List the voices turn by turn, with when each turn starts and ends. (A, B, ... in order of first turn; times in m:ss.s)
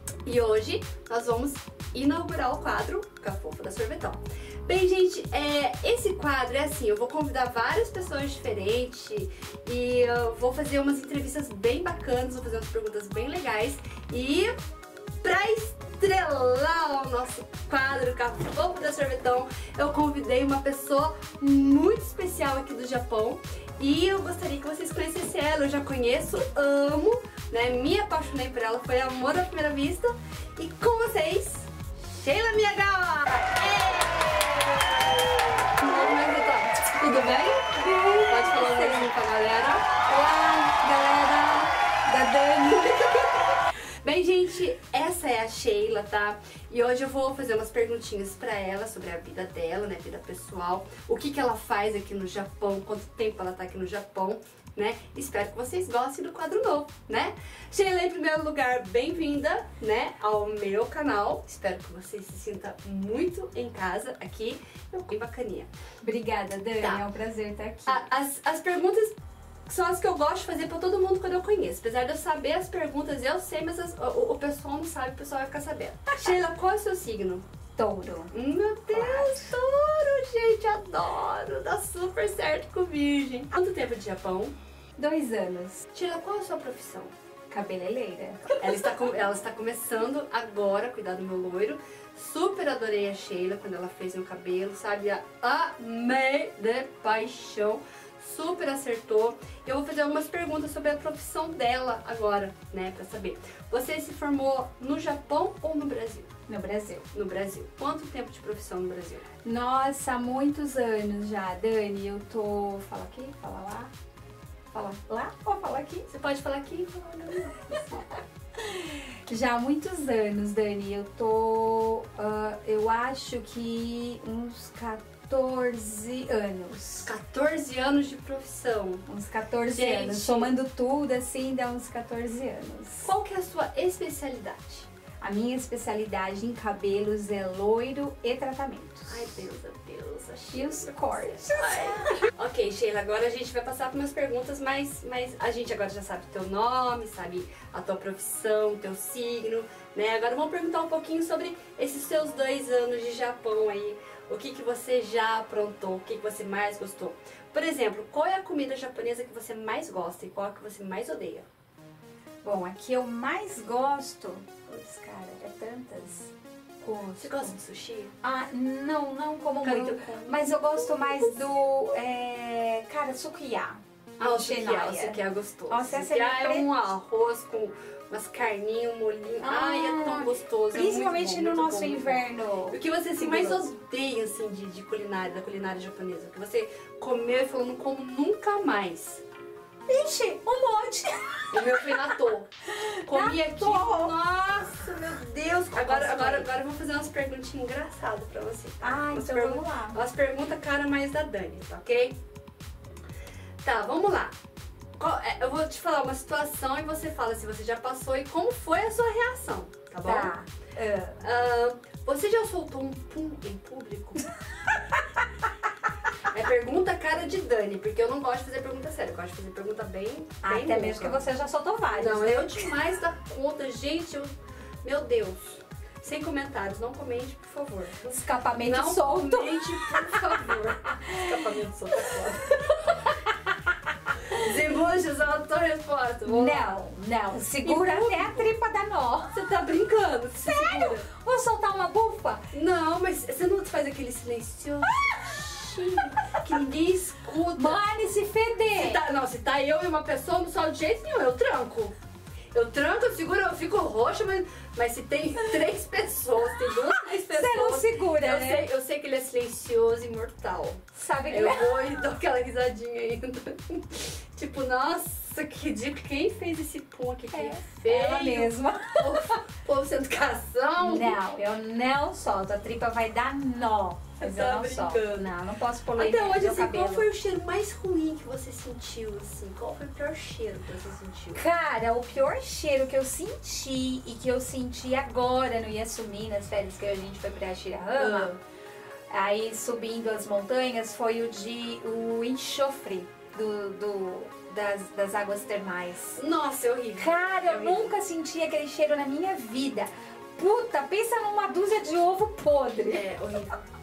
0:00.2-0:14.5 A
0:15.2-0:40.0 A
0:37.8-0:39.1 B
0:40.0-0:43.1 B
0:42.8-0:43.3 A
0:44.0-1:05.7 A
1:06.0-1:08.1 B
1:07.9-1:09.2 A
1:09.7-1:17.4 A
1:17.8-1:18.3 B
1:18.3-1:24.6 A
1:18.9-1:19.5 B
1:25.0-1:25.9 B
1:25.9-1:27.1 A
1:27.5-1:29.0 B
1:28.6-1:46.3 A
1:46.5-1:47.1 B
1:47.1-1:49.3 A
1:49.4-1:53.9 B
1:54.7-1:56.1 B
1:56.1-1:58.0 A
1:58.6-2:07.1 B
2:07.0-2:09.1 A
2:09.1-2:13.1 B
2:09.7-2:10.5 A
2:13.0-2:14.9 A
2:15.2-2:19.4 B
2:19.1-2:41.5 A
2:20.5-2:22.3 B
2:42.4-2:47.6 B
2:47.2-2:48.2 A
2:48.2-2:56.7 B
2:49.6-2:51.4 A
2:54.2-3:09.2 A
2:59.4-3:03.7 B
3:09.9-3:14.2 B
3:11.5-3:12.5 A
3:13.1-3:22.2 A
3:15.7-3:16.5 B
3:18.8-3:20.0 B
3:23.6-3:24.3 A
3:25.0-3:30.3 A
3:30.0-3:31.2 B
3:31.2-3:34.3 A
3:36.2-3:41.2 A
3:40.4-3:42.8 B
3:41.9-3:52.8 A
3:48.1-3:50.6 B
3:51.1-3:51.5 B
3:52.4-3:53.2 B
3:54.3-3:56.8 A
3:56.3-3:59.4 B
3:57.6-3:58.5 A
3:59.3-4:01.1 A
4:00.4-4:02.5 B
4:02.5-4:07.8 A
4:05.0-4:05.6 B
4:07.6-4:09.0 B
4:08.7-4:12.0 A
4:12.5-4:31.2 A
4:17.2-4:18.7 B
4:21.0-4:21.8 B
4:27.3-4:29.4 B
4:30.8-4:37.1 B
4:34.2-4:35.3 A
4:36.0-4:41.4 A
4:41.4-4:48.3 B
4:48.0-4:48.4 A
4:49.1-4:56.2 B
4:56.2-4:57.9 A
4:57.0-5:03.0 B
5:02.8-5:03.6 A